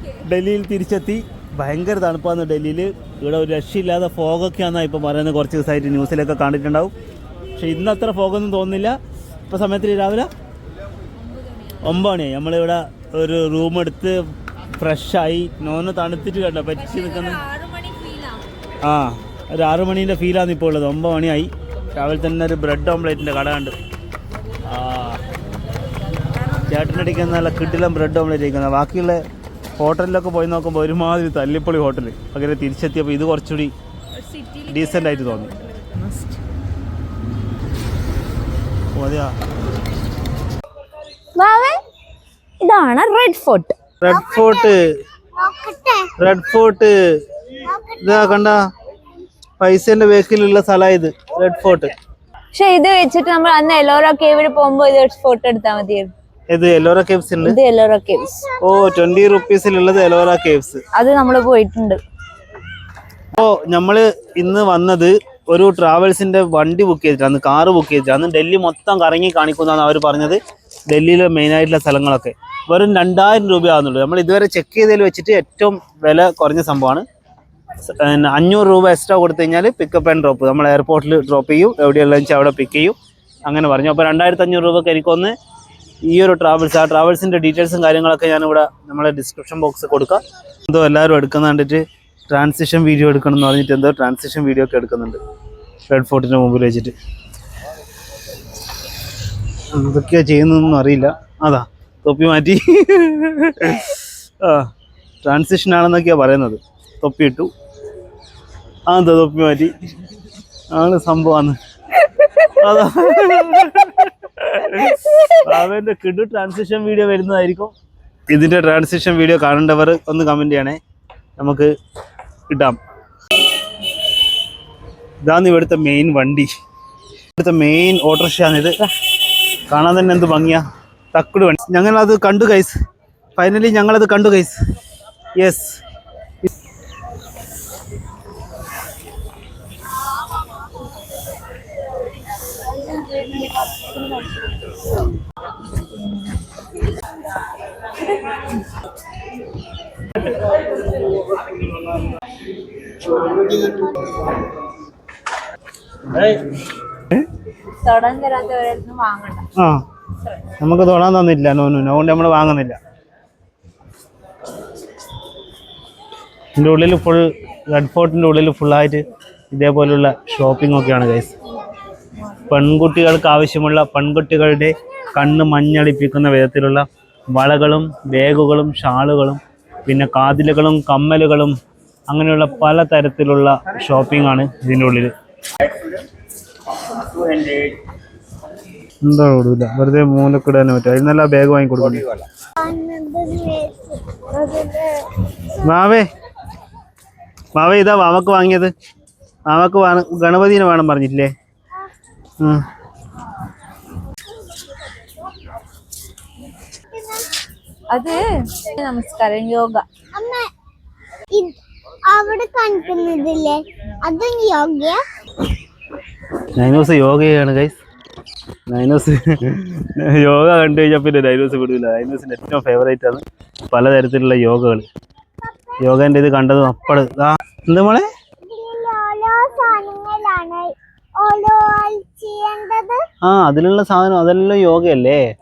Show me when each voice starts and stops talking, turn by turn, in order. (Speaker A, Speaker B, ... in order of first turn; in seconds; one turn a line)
Speaker A: 0.2-6.9
Speaker A: 7.6-8.9
Speaker A: 9.5-10.3
Speaker B: 11.3-11.8
Speaker A: 11.8-14.2
Speaker A: 14.8-17.5
Speaker B: 17.2-18.4
Speaker A: 18.8-23.8
Speaker A: 24.7-25.2
Speaker A: 26.7-29.2
Speaker A: 29.8-33.7
Speaker B: 34.3-34.5
Speaker A: 34.6-35.5
Speaker B: 35.7-36.4
Speaker A: 39.0-39.3
Speaker B: 41.4-41.8
Speaker B: 42.6-43.7
Speaker A: 44.0-44.8
Speaker C: 44.1-44.7
Speaker C: 45.4-46.1
Speaker A: 46.2-46.9
Speaker C: 47.6-48.5
Speaker A: 48.0-48.5
Speaker A: 49.6-51.9
Speaker B: 52.5-56.1
Speaker A: 56.5-57.6
Speaker B: 57.4-58.5
Speaker A: 58.6-60.8
Speaker B: 60.9-62.0
Speaker A: 63.3-77.0
Speaker A: 78.0-85.3
Speaker A: 86.1-95.2
Speaker A: 95.9-96.9
Speaker A: 99.7-104.7
Speaker A: 105.2-107.5
Speaker A: 108.9-109.7
Speaker A: 110.7-111.6
Speaker A: 112.4-117.7
Speaker A: 118.3-120.8
Speaker A: 121.4-121.7
Speaker A: 122.5-122.8
Speaker A: 125.2-126.5
Speaker A: 127.4-128.8
Speaker A: 129.7-132.8
Speaker A: 133.4-134.6
Speaker A: 135.4-135.8
Speaker B: 142.5-144.5
Speaker B: 145.9-146.4
Speaker B: 157.8-159.5
Speaker A: 160.6-162.8
Speaker A: 166.6-169.0
Speaker A: 169.5-171.3
Speaker A: 172.5-181.6
Speaker A: 182.1-185.1
Speaker A: 187.0-187.7
Speaker A: 189.0-192.1
Speaker C: 192.6-194.5
Speaker B: 194.4-194.8
Speaker A: 195.6-196.1
Speaker A: 197.6-198.7
Speaker A: 199.5-201.3
Speaker C: 206.9-207.2
Speaker B: 207.9-209.8
Speaker C: 210.1-210.5
Speaker C: 212.1-215.0
Speaker A: 216.6-217.8
Speaker A: 218.7-224.9
Speaker C: 225.5-225.9
Speaker A: 225.8-228.1
Speaker C: 228.5-233.0
Speaker A: 233.2-235.2